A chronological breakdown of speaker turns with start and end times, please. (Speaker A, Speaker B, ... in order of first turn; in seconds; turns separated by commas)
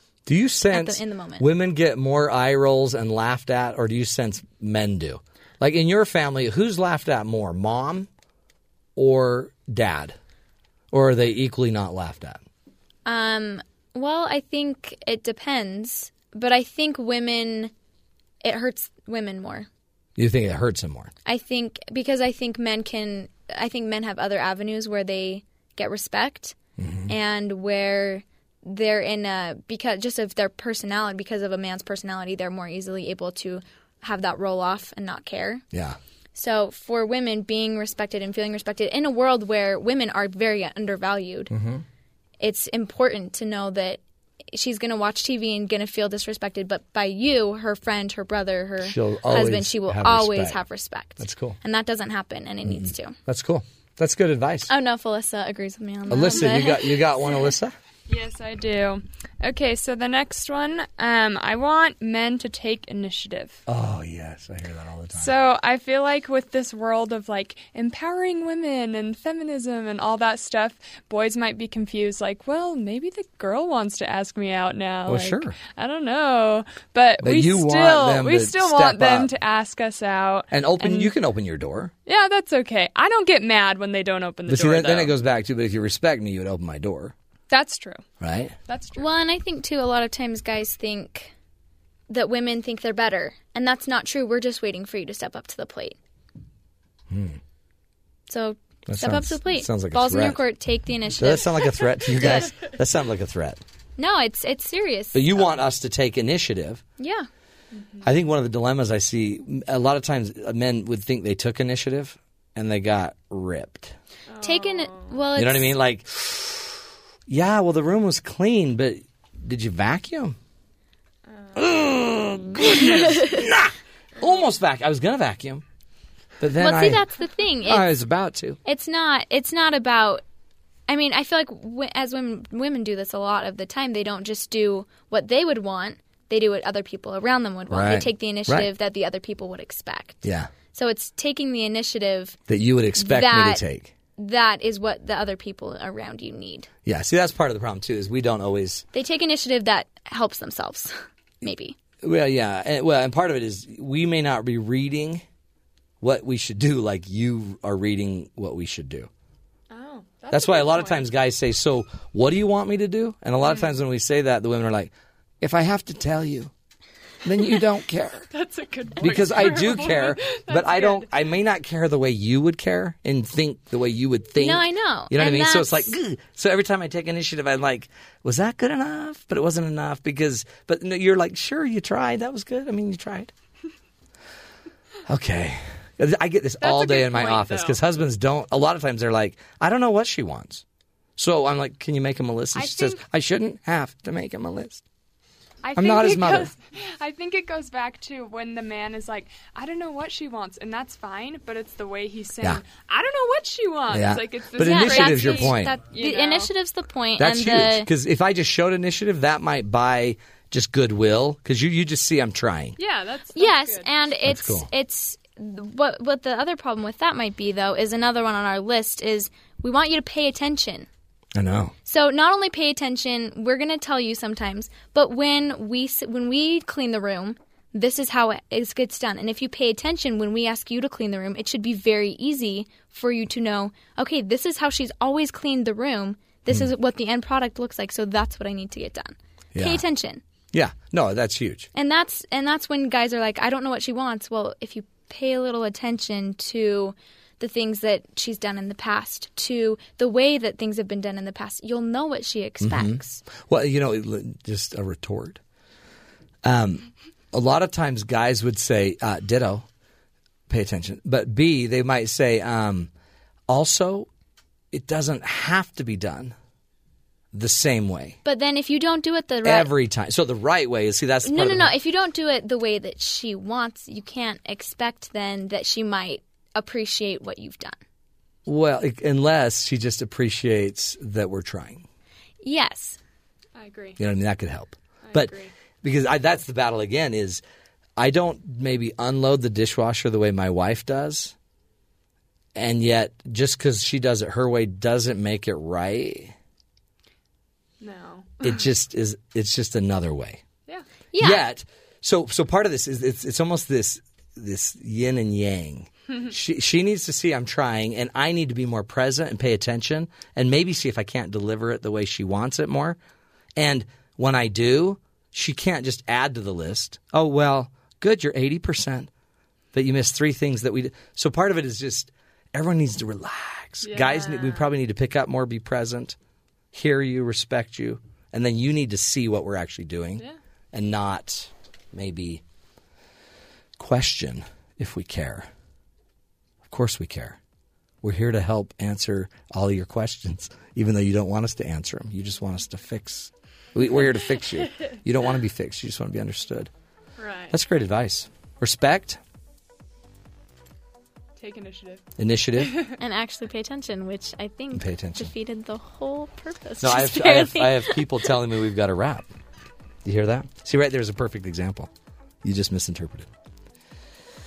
Speaker A: 0.3-8.1, Speaker B: 0.7-1.5, Speaker A: 9.0-10.2, Speaker A: 10.9-12.4, Speaker B: 13.1-17.7, Speaker B: 18.4-19.7, Speaker A: 20.2-21.1, Speaker B: 21.3-26.6, Speaker A: 26.8-27.1, Speaker B: 27.1-35.6, Speaker B: 36.4-41.5, Speaker A: 41.5-41.8, Speaker B: 42.4-44.0, Speaker B: 44.5-53.2, Speaker A: 48.8-50.6, Speaker A: 51.2-51.6, Speaker A: 52.6-54.7, Speaker B: 54.7-57.5, Speaker C: 56.1-56.4, Speaker A: 56.1-57.7, Speaker C: 58.1-63.6, Speaker A: 63.7-65.3, Speaker C: 65.1-81.1, Speaker A: 75.1-75.6, Speaker A: 77.2-79.3, Speaker A: 80.5-81.9, Speaker C: 82.1-85.1, Speaker A: 84.5-87.2, Speaker C: 87.5-88.0, Speaker A: 88.2-88.5, Speaker C: 88.7-89.1, Speaker B: 89.0-91.3, Speaker B: 92.1-96.0, Speaker A: 97.1-97.4, Speaker B: 98.3-102.5, Speaker A: 98.9-100.4, Speaker A: 101.2-103.6, Speaker B: 104.0-105.5, Speaker A: 105.1-106.8, Speaker B: 107.0-107.3, Speaker C: 107.7-108.1, Speaker A: 108.0-114.0, Speaker C: 114.3-115.2, Speaker B: 114.4-115.7, Speaker A: 115.3-120.4, Speaker C: 121.3-121.7, Speaker A: 121.5-125.6, Speaker B: 122.9-123.4, Speaker A: 126.4-127.0, Speaker B: 126.6-127.9, Speaker A: 127.6-128.6, Speaker B: 128.7-130.2, Speaker B: 130.9-142.4, Speaker A: 137.7-138.7, Speaker A: 140.2-140.5, Speaker A: 142.5-143.9, Speaker B: 142.9-143.7, Speaker B: 144.2-146.7, Speaker A: 146.9-148.8, Speaker B: 148.9-151.8, Speaker A: 152.0-155.2, Speaker A: 156.0-159.1, Speaker C: 159.7-161.1, Speaker A: 160.3-166.5, Speaker C: 163.4-163.8, Speaker A: 167.2-168.3, Speaker C: 168.3-171.1, Speaker A: 169.0-183.3, Speaker B: 174.4-175.9, Speaker A: 185.1-190.6, Speaker C: 186.6-187.8, Speaker A: 191.2-194.8, Speaker C: 192.6-193.0, Speaker C: 195.6-206.5, Speaker A: 195.8-196.5, Speaker A: 203.9-205.8, Speaker B: 204.6-207.9, Speaker A: 207.2-212.8, Speaker C: 212.8-214.0, Speaker B: 213.3-220.9, Speaker A: 214.2-214.7, Speaker A: 221.4-221.7, Speaker B: 221.9-240.2, Speaker A: 239.6-239.8, Speaker A: 240.5-241.7, Speaker B: 241.8-253.2, Speaker A: 252.6-255.4, Speaker A: 256.4-259.6, Speaker A: 260.5-262.9, Speaker A: 263.5-264.1, Speaker A: 264.7-266.4, Speaker A: 267.3-268.2, Speaker B: 268.2-269.7, Speaker A: 269.4-271.7, Speaker B: 271.2-277.8, Speaker A: 278.5-281.9, Speaker B: 282.4-283.0, Speaker C: 283.6-284.0, Speaker A: 284.0-287.4, Speaker C: 285.0-285.5, Speaker A: 288.0-291.3, Speaker A: 292.6-296.4, Speaker C: 297.8-298.7, Speaker A: 298.4-300.4, Speaker B: 301.1-301.4, Speaker A: 301.2-313.0, Speaker A: 313.6-319.1, Speaker A: 319.7-326.2, Speaker C: 323.8-324.7, Speaker A: 326.7-332.4, Speaker A: 333.8-335.5, Speaker A: 336.7-337.4, Speaker A: 338.0-346.7, Speaker C: 347.2-347.6, Speaker A: 347.5-349.2, Speaker C: 351.4-352.1, Speaker A: 352.2-352.8, Speaker C: 352.6-353.0, Speaker B: 353.0-358.2, Speaker A: 354.7-355.3, Speaker A: 356.8-359.3, Speaker A: 360.1-361.9, Speaker A: 362.4-363.3